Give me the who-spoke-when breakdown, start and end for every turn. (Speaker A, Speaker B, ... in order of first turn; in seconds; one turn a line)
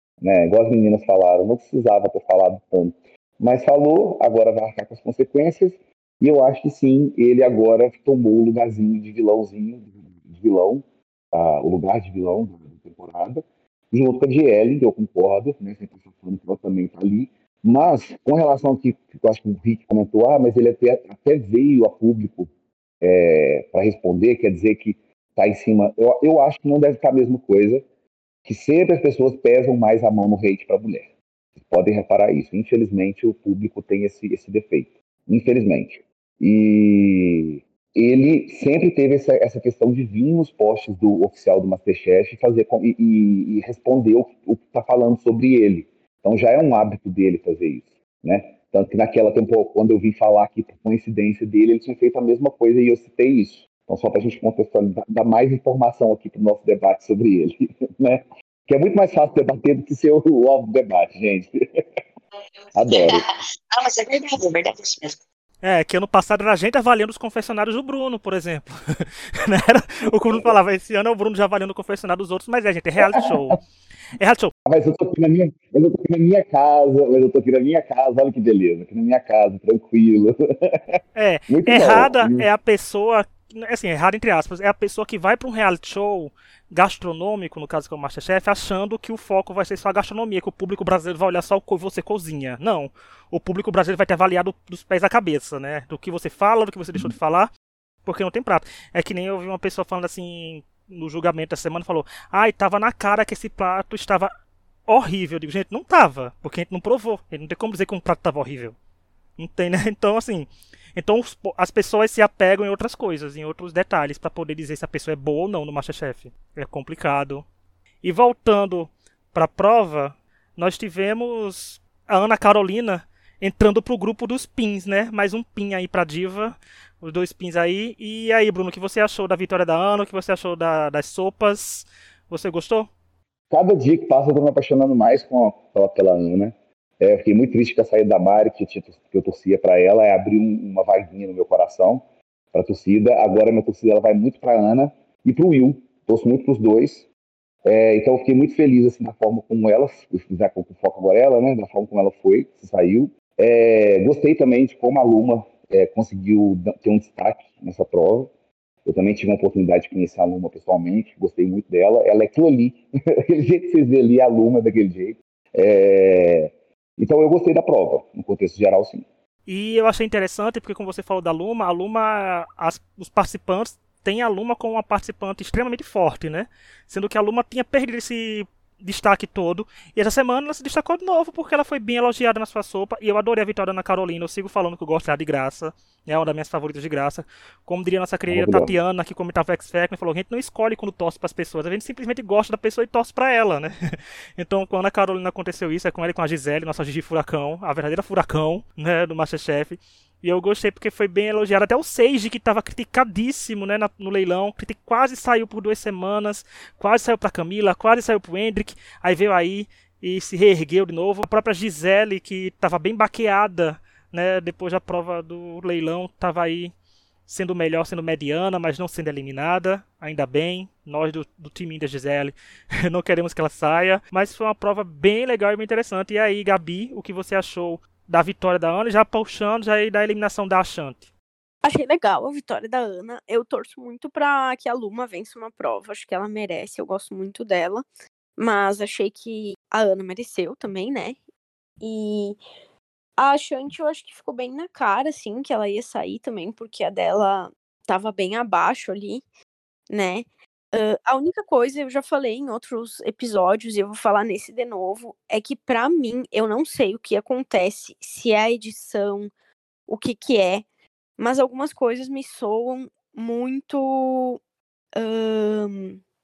Speaker A: 0.2-22.5
Speaker A: 23.0-27.8
Speaker A: 28.4-61.6
Speaker A: 62.8-63.2
Speaker B: 62.9-65.2
Speaker C: 65.6-73.6
Speaker A: 70.1-70.5
Speaker C: 74.2-74.5
Speaker A: 74.7-82.5
Speaker C: 81.2-97.5
Speaker C: 98.0-104.3
Speaker C: 104.9-108.8
Speaker C: 109.4-117.5
Speaker C: 118.0-132.9
Speaker A: 133.5-147.1
Speaker A: 147.7-158.3
Speaker A: 158.8-169.1
Speaker C: 169.5-216.7
Speaker A: 188.3-188.7
Speaker C: 217.3-222.3
Speaker C: 222.8-231.1
Speaker D: 231.6-237.8
Speaker D: 238.4-241.2
Speaker D: 241.8-242.4
Speaker D: 243.2-249.2
Speaker D: 249.9-259.3
Speaker D: 259.9-260.6
Speaker D: 261.2-264.4
Speaker D: 265.0-266.0